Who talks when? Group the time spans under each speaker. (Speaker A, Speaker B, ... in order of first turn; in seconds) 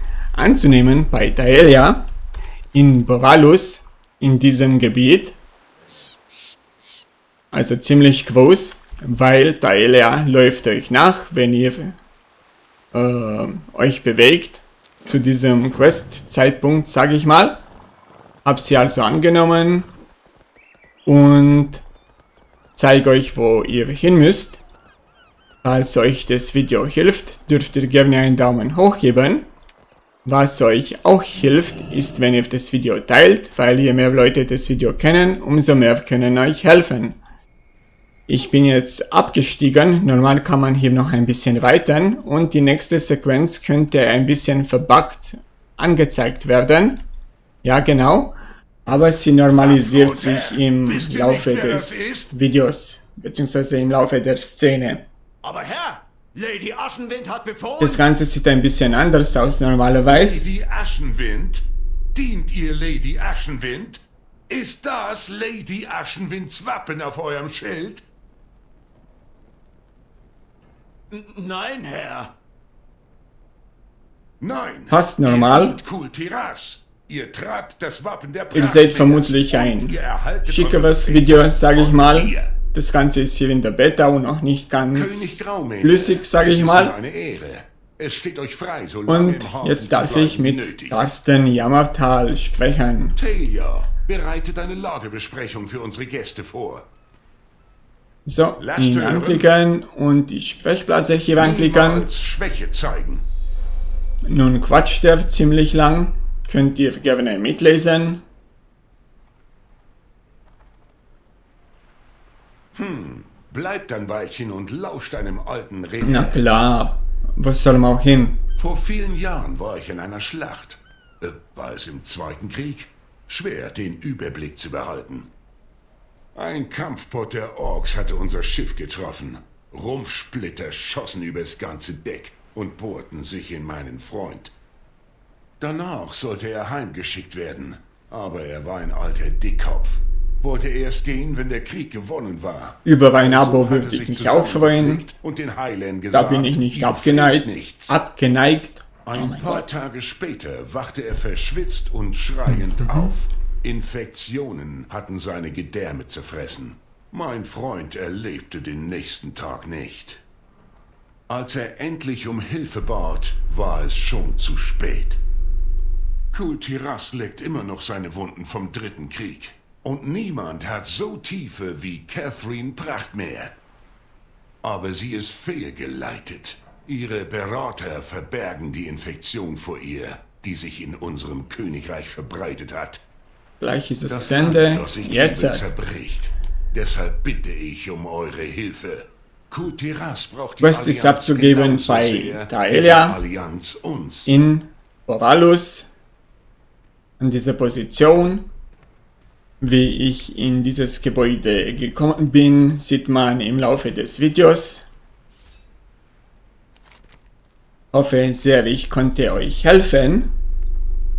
Speaker A: 0.4-2.0, 2.7-5.4, 7.5-11.9, 12.9-17.6, 18.4-19.9, 21.1-21.8, 22.8-24.6, 25.6-29.5, 30.2-37.2, 38.3-47.0, 47.6-48.4, 48.9-55.0, 57.8-60.5, 74.9-75.8, 78.5-87.0, 89.1-93.2, 98.3-102.1, 104.3-108.2, 116.0-118.4, 142.8-145.1, 146.1-149.7, 183.6-185.7, 190.6-193.2, 194.2-195.9, 197.2-198.4, 199.6-204.9, 207.9-210.3
Speaker B: 49.5-52.3, 60.0-68.0, 74.4-82.5, 84.9-91.0, 93.1-96.9, 98.6-99.5, 101.4-103.2, 112.7-116.4, 118.6-125.3, 126.3-134.5, 135.6-147.9, 149.1-160.2, 161.3-165.2, 166.3-173.5, 174.6-183.0, 184.1-194.3
Speaker C: 55.4-58.0, 71.1-72.3